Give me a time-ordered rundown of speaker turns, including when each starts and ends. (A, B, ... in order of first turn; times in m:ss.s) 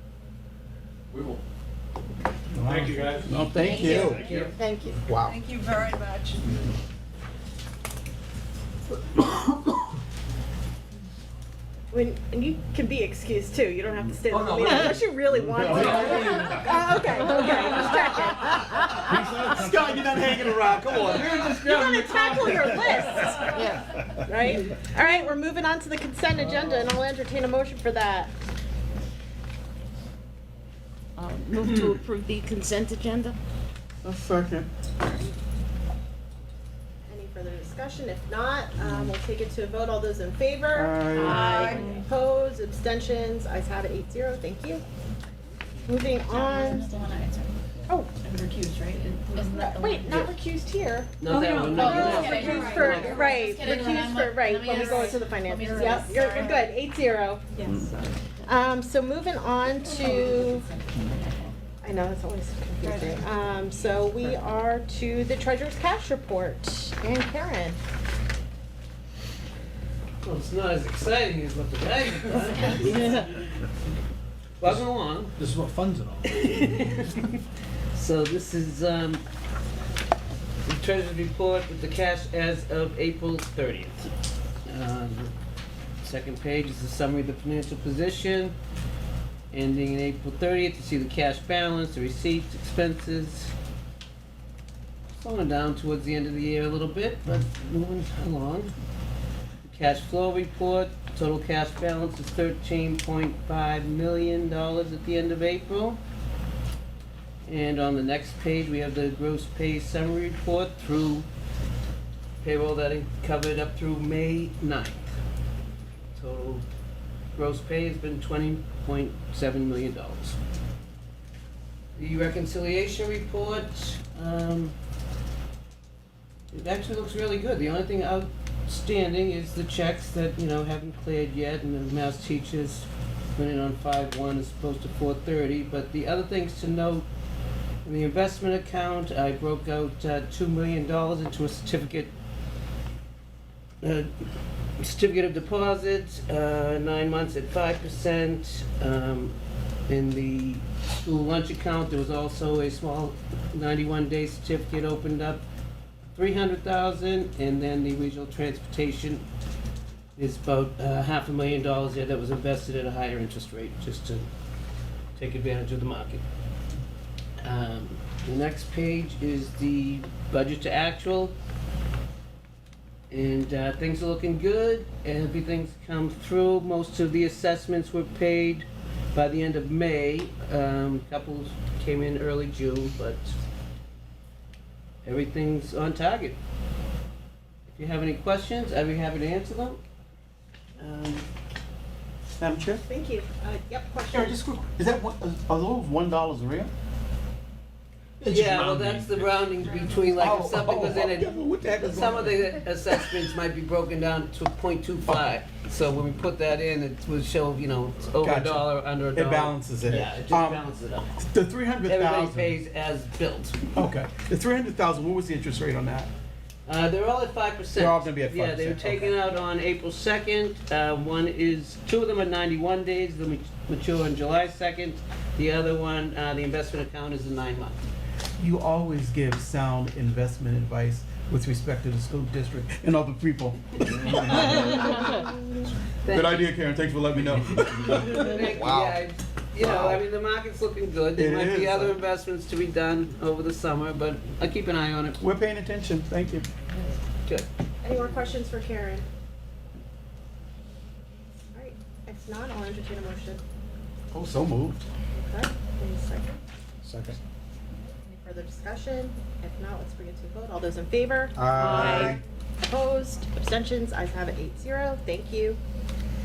0:01.1-0:01.4 A
0:02.5-0:04.4 B
0:02.6-0:04.5 A
0:03.5-0:04.5 C
0:03.8-0:04.4 D
0:03.8-0:04.4 E
0:03.9-0:04.6 F
0:05.0-0:05.4 B
0:05.3-0:06.4 F
0:11.9-0:19.0 E
0:14.3-0:15.0 A
0:15.6-0:16.5 B
0:15.6-0:16.7 A
0:18.9-0:23.7 B
0:19.0-0:19.9 A
0:21.4-0:28.3 E
0:23.6-0:23.8 C
0:31.2-0:33.4 C
0:34.0-0:34.7 B
0:37.1-0:44.8 E
0:38.8-0:39.1 B
0:40.7-0:41.6 B
0:41.1-0:42.0 C
0:41.4-0:42.0 F
0:45.9-0:46.9 E
0:46.2-0:47.6 C
0:47.9-0:48.1 E
0:48.2-0:50.3 C
0:49.3-0:51.1 E
0:51.2-0:53.4 D
0:51.3-0:56.7 C
0:51.4-0:53.8 F
0:51.7-1:00.7 E
0:59.8-1:01.6 C
1:01.8-1:07.8 E
1:02.8-1:03.2 C
1:10.2-1:13.3 D
1:14.6-1:15.3 D
1:15.4-1:17.0 A
1:16.2-1:17.4 D
1:17.9-1:19.2 D
1:20.6-1:24.1 D
1:24.7-1:25.3 D
1:26.0-1:28.6 D
1:29.5-1:33.5 D
1:35.1-1:38.7 D
1:39.6-1:46.0 D
1:47.5-1:51.3 D
1:52.4-1:55.1 D
1:56.2-1:56.6 D
1:57.3-2:00.4 D
2:02.0-2:04.8 D
2:06.5-2:17.1 D
2:17.8-2:22.1 D
2:23.8-2:24.1 D
2:24.8-2:29.4 D
2:29.9-2:35.4 D
2:36.1-2:39.2 D
2:40.2-2:44.3 D
2:45.2-2:46.2 D
2:47.4-2:51.3 D
2:53.1-3:03.3 D
3:05.0-3:06.4 D
3:07.7-3:09.8 D
3:10.8-3:11.3 D
3:12.4-3:12.8 B
3:12.8-3:14.4 E
3:14.1-3:16.7 B
3:18.2-3:19.8 A
3:18.2-3:31.1 D
3:20.1-3:22.4 B
3:28.2-3:30.6 B
3:31.2-3:32.5 B
3:31.8-3:33.6 D
3:33.7-3:36.1 B
3:36.7-3:47.8 D
3:37.8-3:39.1 B
3:48.4-3:55.3 B
3:53.9-3:55.3 D
3:56.0-3:56.5 D
3:56.1-3:58.9 B
3:57.8-4:05.2 D
3:59.6-4:00.0 B
4:01.2-4:02.0 B
4:05.2-4:06.5 B
4:07.8-4:09.0 E
4:11.5-4:13.4 E
4:14.1-4:14.8 B
4:15.1-4:16.4 E
4:16.8-4:17.2 A
4:18.1-4:25.6 E
4:21.4-4:22.2 B